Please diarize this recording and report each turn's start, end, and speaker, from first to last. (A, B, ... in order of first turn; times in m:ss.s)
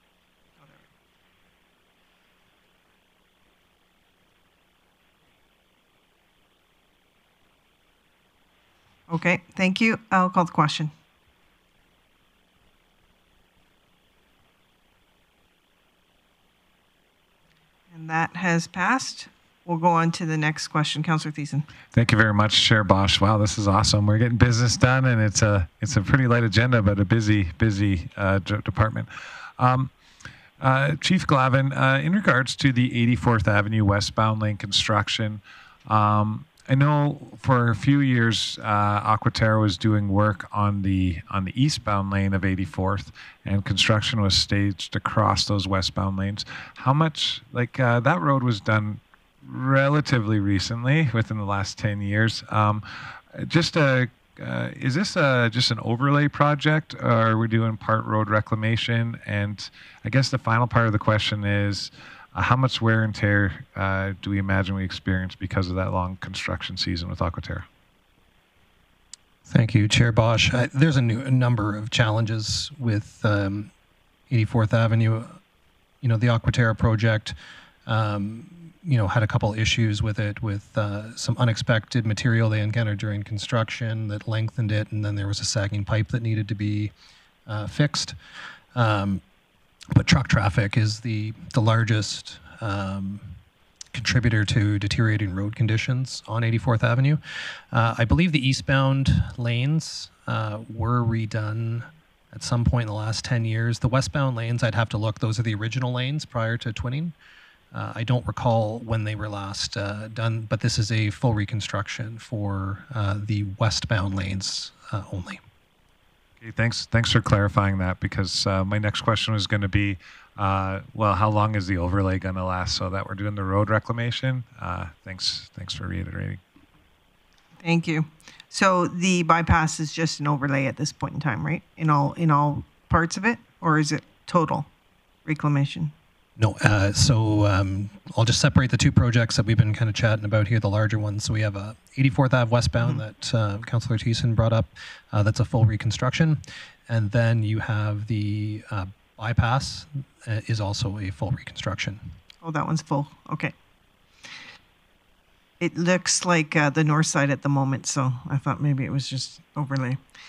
0:09.1-0:10.9 A
0:17.9-0:21.7 A
0:21.9-0:29.9 B
0:30.6-1:07.6 B
1:09.5-1:13.7 C
1:14.3-1:15.4 C
1:16.0-1:26.9 C
1:27.5-1:28.1 C
1:28.7-1:29.2 C
1:29.9-1:33.4 C
1:33.9-1:47.1 C
1:47.7-1:55.4 C
1:56.4-2:06.4 B
2:07.6-2:14.7 A
2:15.2-2:15.9 A
2:16.4-2:32.1 C
2:32.4-2:33.5 A
2:35.6-2:40.0 A